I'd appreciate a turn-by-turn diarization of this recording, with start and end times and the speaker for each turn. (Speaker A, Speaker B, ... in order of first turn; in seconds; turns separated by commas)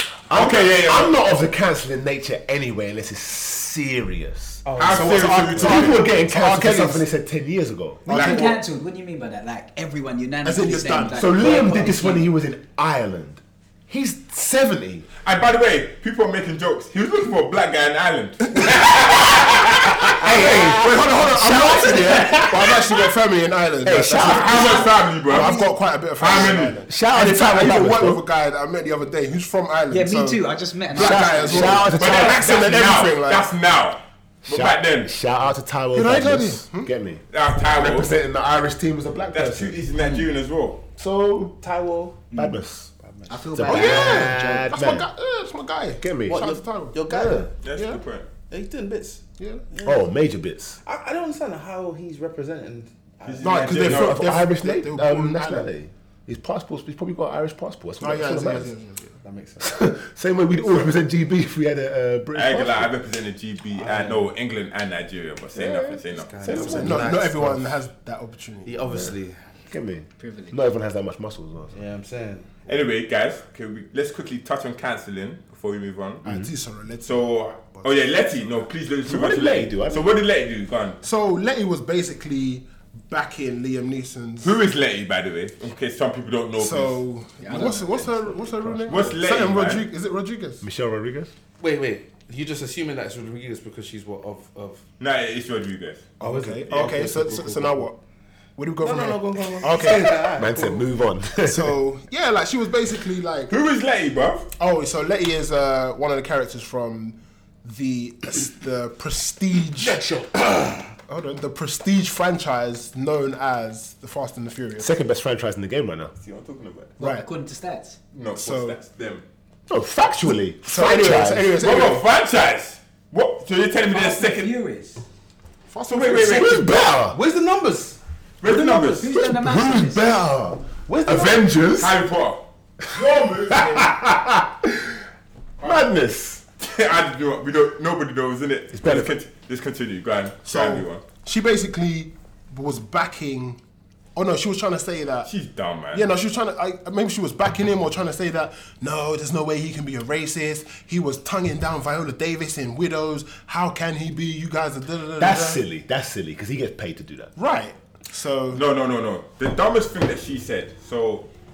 Speaker A: 0.3-4.6, Speaker B: 0.3-1.3, Speaker C: 4.6-5.8, Speaker B: 4.8-6.1, Speaker D: 4.8-7.1, Speaker A: 5.5-8.1, Speaker D: 8.1-8.6, Speaker B: 8.1-8.6, Speaker E: 8.1-12.3, Speaker D: 10.4-11.9, Speaker A: 11.1-15.1, Speaker B: 15.2-20.8, Speaker D: 18.6-19.3, Speaker A: 20.0-22.9, Speaker D: 20.0-33.5, Speaker B: 21.8-22.7, Speaker A: 23.8-24.9, Speaker B: 24.2-25.6, Speaker E: 25.3-25.7, Speaker B: 26.2-26.8, Speaker A: 26.9-28.2, Speaker E: 29.9-31.9, Speaker A: 31.0-32.5, Speaker B: 31.0-35.1, Speaker A: 34.5-39.9, Speaker D: 35.9-36.9, Speaker B: 37.3-38.2, Speaker B: 39.3-40.8, Speaker E: 40.0-40.3, Speaker A: 41.0-41.6, Speaker C: 41.6-42.3, Speaker E: 42.3-42.6, Speaker A: 42.3-42.9, Speaker C: 43.0-43.5, Speaker E: 43.3-44.6, Speaker A: 43.5-45.1, Speaker D: 43.6-48.0, Speaker A: 46.0-46.5, Speaker C: 46.3-47.5, Speaker A: 47.1-47.5, Speaker B: 47.6-48.3, Speaker C: 48.5-50.0, Speaker D: 49.4-49.6, Speaker A: 49.8-50.8, Speaker C: 50.8-53.9, Speaker B: 53.2-54.2, Speaker D: 53.4-55.7, Speaker A: 53.7-58.7, Speaker D: 58.0-59.2, Speaker C: 59.2-59.8, Speaker A: 59.6-62.9, Speaker B: 62.3-66.7, Speaker C: 63.8-64.3, Speaker A: 65.5-67.2, Speaker C: 66.1-67.8, Speaker D: 66.6-69.0, Speaker C: 68.6-69.4, Speaker A: 69.7-71.8, Speaker E: 70.2-70.6, Speaker C: 71.7-72.5, Speaker B: 72.7-76.2, Speaker D: 76.2-78.2, Speaker B: 77.0-81.0, Speaker A: 79.0-80.2, Speaker D: 81.0-84.6, Speaker B: 84.4-87.0, Speaker D: 86.5-90.6, Speaker E: 87.4-88.1, Speaker A: 88.6-89.0, Speaker B: 88.8-89.9, Speaker A: 90.6-91.3, Speaker C: 91.6-94.8, Speaker B: 95.0-96.1, Speaker D: 96.2-98.0, Speaker C: 96.2-97.8, Speaker B: 96.7-97.0, Speaker D: 98.5-100.5, Speaker C: 98.8-100.9, Speaker A: 100.3-101.8, Speaker D: 101.5-103.5, Speaker B: 103.5-104.5, Speaker D: 104.6-110.1, Speaker C: 109.8-110.9, Speaker D: 111.1-114.9, Speaker A: 114.8-116.1, Speaker B: 116.2-117.0, Speaker D: 117.0-117.3, Speaker E: 117.0-118.0, Speaker B: 118.1-119.2, Speaker D: 118.3-118.8, Speaker A: 119.7-121.8, Speaker D: 120.6-122.0, Speaker B: 121.6-124.6, Speaker E: 123.9-125.0, Speaker D: 125.7-126.9, Speaker B: 125.9-126.7, Speaker A: 126.2-127.2, Speaker C: 127.0-128.0, Speaker B: 128.4-129.1, Speaker E: 128.4-130.0, Speaker A: 129.1-132.0, Speaker C: 130.9-131.4, Speaker B: 131.6-133.9, Speaker A: 132.9-135.0, Speaker A: 135.6-136.4, Speaker B: 136.6-141.0, Speaker A: 138.7-139.2, Speaker D: 140.4-143.6, Speaker D: 144.1-145.3, Speaker B: 145.2-146.1, Speaker D: 145.9-155.6, Speaker A: 155.2-157.3, Speaker D: 157.3-158.6, Speaker B: 158.5-161.3